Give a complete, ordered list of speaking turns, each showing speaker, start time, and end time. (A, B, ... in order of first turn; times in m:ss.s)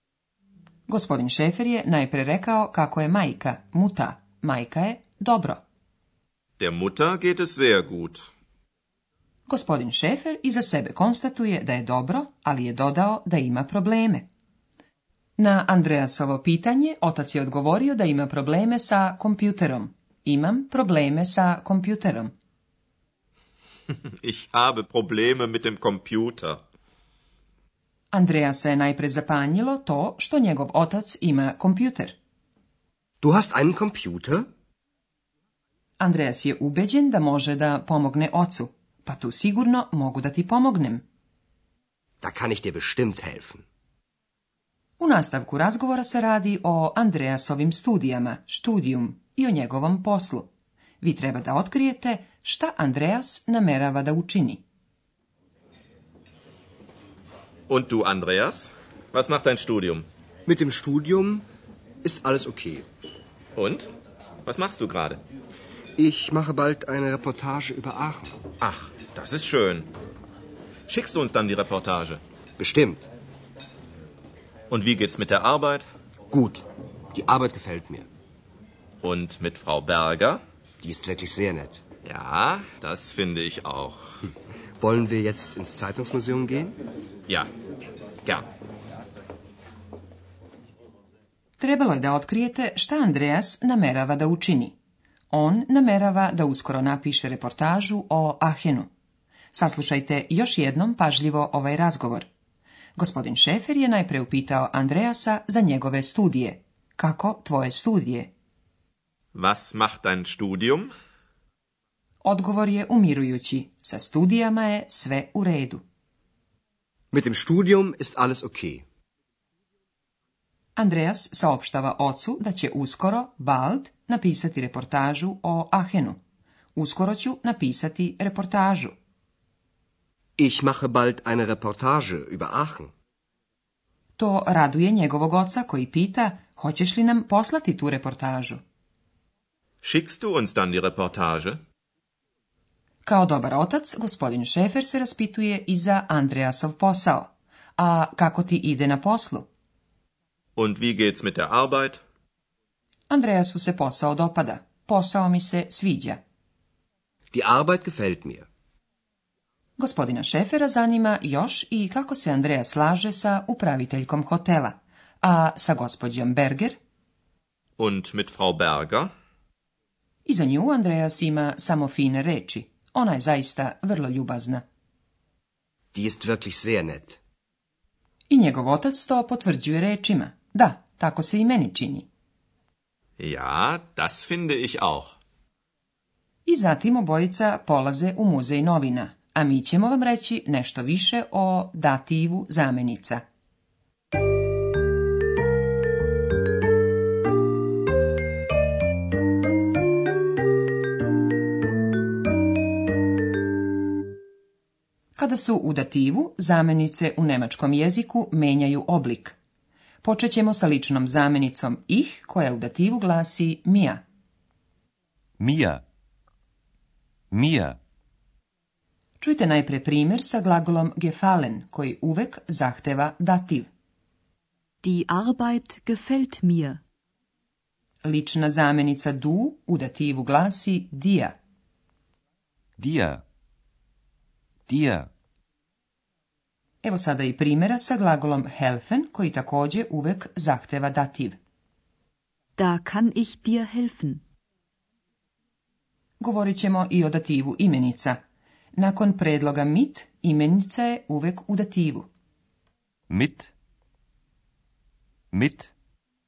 0:00.9-0:05.6 A
0:06.6-0:08.3 B
0:09.5-0:14.3 A
0:15.4-0:22.3 A
0:24.2-0:26.6 B
0:28.1-0:32.2 A
0:33.2-0:34.4 C
0:36.0-0:41.0 A
0:42.2-0:43.6 C
0:45.0-0:54.6 A
0:57.7-1:00.0 B
1:00.4-1:01.4 C
1:02.0-1:02.8 C
1:03.5-1:03.9 B
1:04.4-1:05.2 B
1:06.0-1:08.4 C
1:08.6-1:09.9 B
1:10.9-1:12.2 B
1:12.6-1:13.1 C
1:14.7-1:15.8 B
1:16.3-1:18.1 C
1:19.0-1:20.4 B
1:20.8-1:21.8 C
1:22.0-1:24.0 B
1:24.8-1:26.8 C
1:31.6-1:34.8 A
1:35.3-1:38.9 A
1:39.5-1:42.3 A
1:43.0-1:48.3 A
1:49.3-1:50.9 B
1:52.2-1:55.8 A
1:57.1-1:58.8 C
2:00.8-2:06.2 A
2:06.8-2:08.9 A
2:10.4-2:12.9 C
2:14.2-2:18.6 A
2:19.8-2:21.6 B
2:23.0-2:29.5 A
2:30.6-2:32.0 B
2:33.1-2:36.2 A
2:37.3-2:38.4 C
2:39.8-2:46.8 A
2:47.8-2:49.1 B
2:50.2-2:54.6 A
2:55.9-2:57.2 C
2:58.3-3:02.1 A
3:03.2-3:05.1 B
3:06.4-3:13.2 A
3:25.2-3:29.4 A
3:30.0-3:34.0 A
3:35.4-3:35.8 D
3:37.3-3:37.8 D
3:39.2-3:43.7 A
3:44.8-3:46.8 E
3:48.0-3:51.4 A
3:52.8-3:53.2 D
3:54.7-3:55.1 D
3:56.8-4:01.4 A
4:02.6-4:04.2 E
4:06.2-4:08.2 A
4:08.8-4:12.1 A
4:13.1-4:13.5 D
4:15.3-4:15.7 D